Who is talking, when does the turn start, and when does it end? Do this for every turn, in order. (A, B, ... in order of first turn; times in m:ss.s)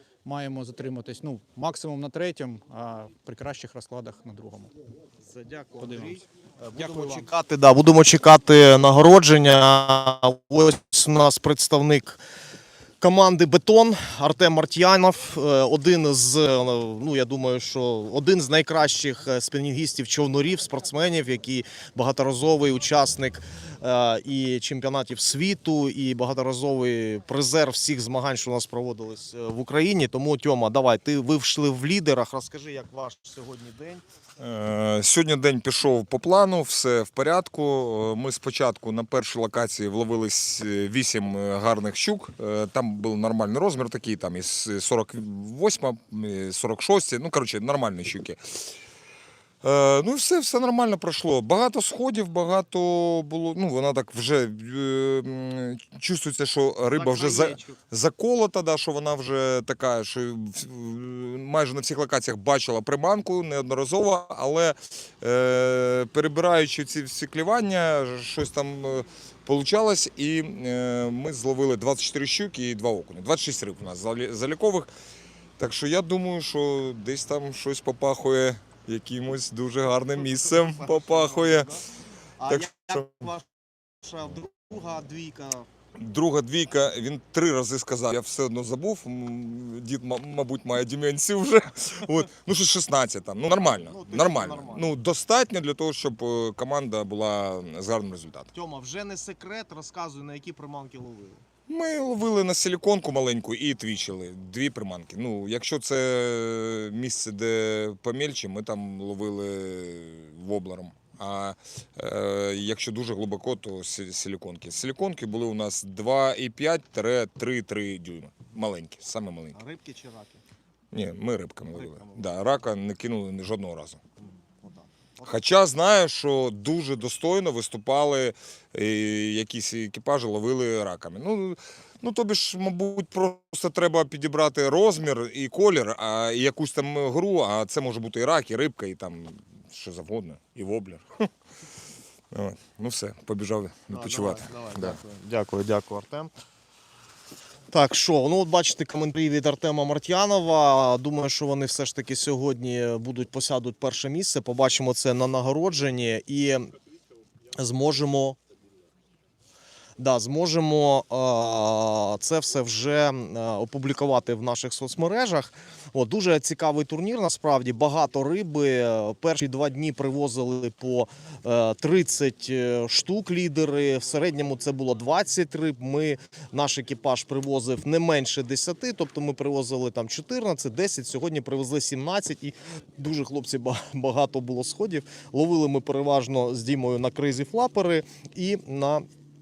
0:00.2-0:04.7 A
0:05.2-0:12.2 B
0:05.8-0:06.2 A
0:06.7-0:07.3 A
0:13.0-0:34.0 B
0:34.4-0:48.4 C
0:49.6-1:14.9 C
0:56.9-0:57.8 B
1:15.6-1:21.7 C
1:20.1-1:21.8 B
1:22.4-1:23.5 B
1:22.5-1:23.0 C
1:24.0-1:25.6 B
1:26.0-1:38.5 C
1:33.5-1:34.9 B
1:38.5-1:41.4 B
1:41.7-1:59.6 C
1:59.5-2:00.4 B
2:00.9-2:04.0 C
2:01.7-2:02.4 B
2:04.2-2:05.4 B
2:05.2-2:21.3 C
2:22.3-2:25.0 C
2:23.9-2:26.3 B
2:27.7-2:36.7 B
2:37.6-2:38.4 B
2:40.0-3:09.0 B